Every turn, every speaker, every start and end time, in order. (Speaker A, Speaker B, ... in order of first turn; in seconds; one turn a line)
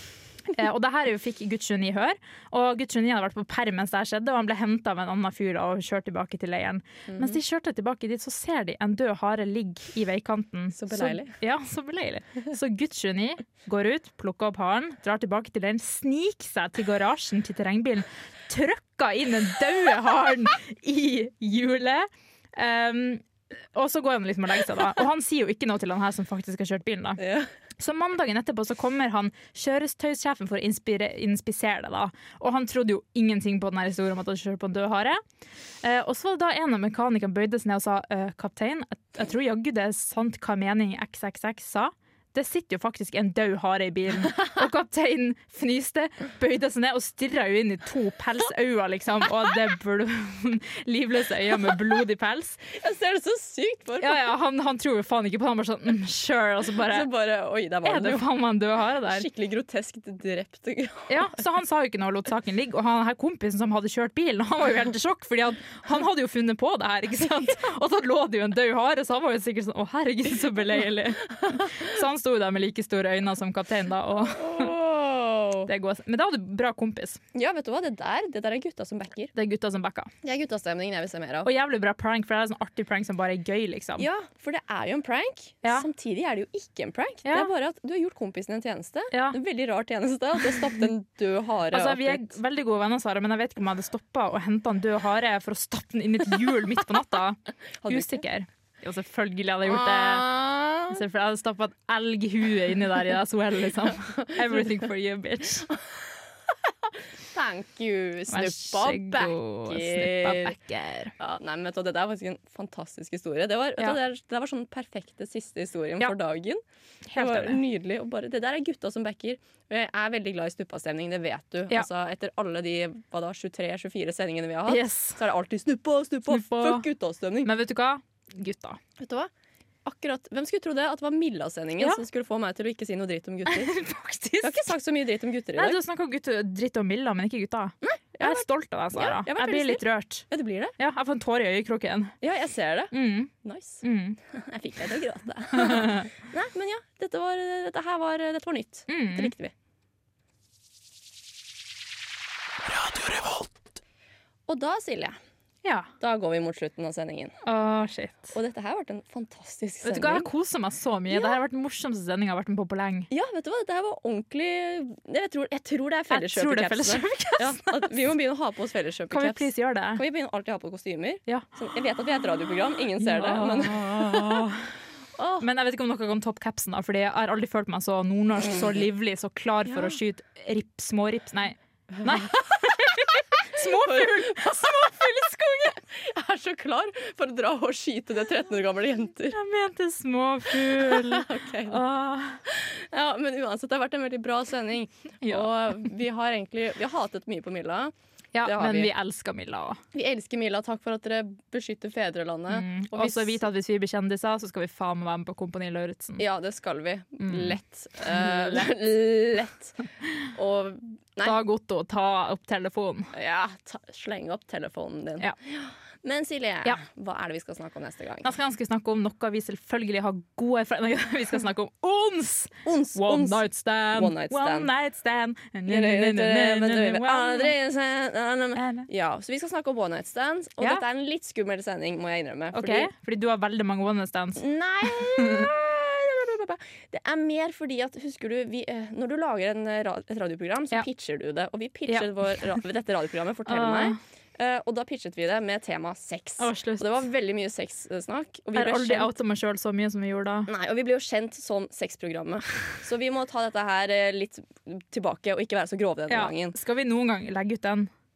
Speaker A: 0.5-27.2
Speaker B: 7.1-7.4
Speaker B: 10.7-11.4
Speaker B: 27.2-27.5
Speaker A: 27.8-35.2
Speaker A: 35.8-52.6
Speaker B: 52.7-54.3
Speaker A: 54.0-57.1
Speaker B: 56.9-58.3
Speaker A: 57.9-59.3
Speaker B: 59.1-61.3
Speaker A: 61.1-74.7
Speaker B: 74.3-75.7
Speaker A: 75.7-77.2
Speaker B: 77.3-79.3
Speaker A: 79.3-80.1
Speaker B: 80.2-81.5
Speaker A: 81.5-84.1
Speaker B: 84.0-92.2
Speaker A: 89.1-89.4
Speaker A: 91.7-100.3
Speaker B: 97.8-98.2
Speaker B: 99.7-101.0
Speaker A: 100.9-105.7
Speaker B: 104.1-104.7
Speaker B: 107.3-110.5
Speaker A: 108.3-111.1
Speaker B: 111.2-116.6
Speaker A: 117.1-117.6
Speaker B: 117.2-127.5
Speaker A: 124.7-125.2
Speaker A: 126.3-126.8
Speaker A: 127.5-128.8
Speaker B: 129.0-129.3
Speaker B: 129.8-133.8
Speaker A: 133.5-134.7
Speaker B: 134.4-135.8
Speaker A: 135.6-140.2
Speaker B: 137.8-140.7
Speaker A: 140.8-142.2
Speaker B: 142.2-142.9
Speaker A: 142.9-144.2
Speaker B: 143.4-149.5
Speaker A: 145.6-146.1
Speaker A: 148.9-149.3
Speaker B: 154.5-155.2
Speaker A: 155.6-155.9
Speaker B: 156.0-157.3
Speaker A: 157.4-158.3
Speaker B: 158.3-160.3
Speaker A: 159.8-163.1
Speaker B: 163.1-174.5
Speaker A: 166.1-167.9
Speaker A: 169.1-170.0
Speaker A: 173.0-174.7
Speaker B: 175.2-175.5
Speaker A: 175.4-185.8
Speaker B: 183.6-184.9
Speaker B: 185.8-189.4
Speaker A: 189.3-192.4
Speaker B: 190.8-191.8
Speaker B: 192.5-197.9
Speaker A: 198.3-199.8
Speaker B: 198.4-198.9
Speaker B: 199.9-203.4
Speaker A: 202.5-206.2
Speaker B: 206.2-209.8
Speaker A: 207.2-208.7
Speaker B: 210.3-211.4
Speaker A: 211.2-213.1
Speaker B: 213.1-218.3
Speaker A: 218.2-227.5
Speaker B: 222.7-224.7
Speaker B: 225.7-232.9
Speaker A: 228.6-228.9
Speaker A: 232.5-235.5
Speaker B: 234.4-249.1
Speaker A: 241.9-242.6
Speaker A: 243.5-244.0
Speaker A: 246.4-247.1
Speaker A: 248.6-250.5
Speaker B: 250.5-256.6
Speaker A: 256.1-257.9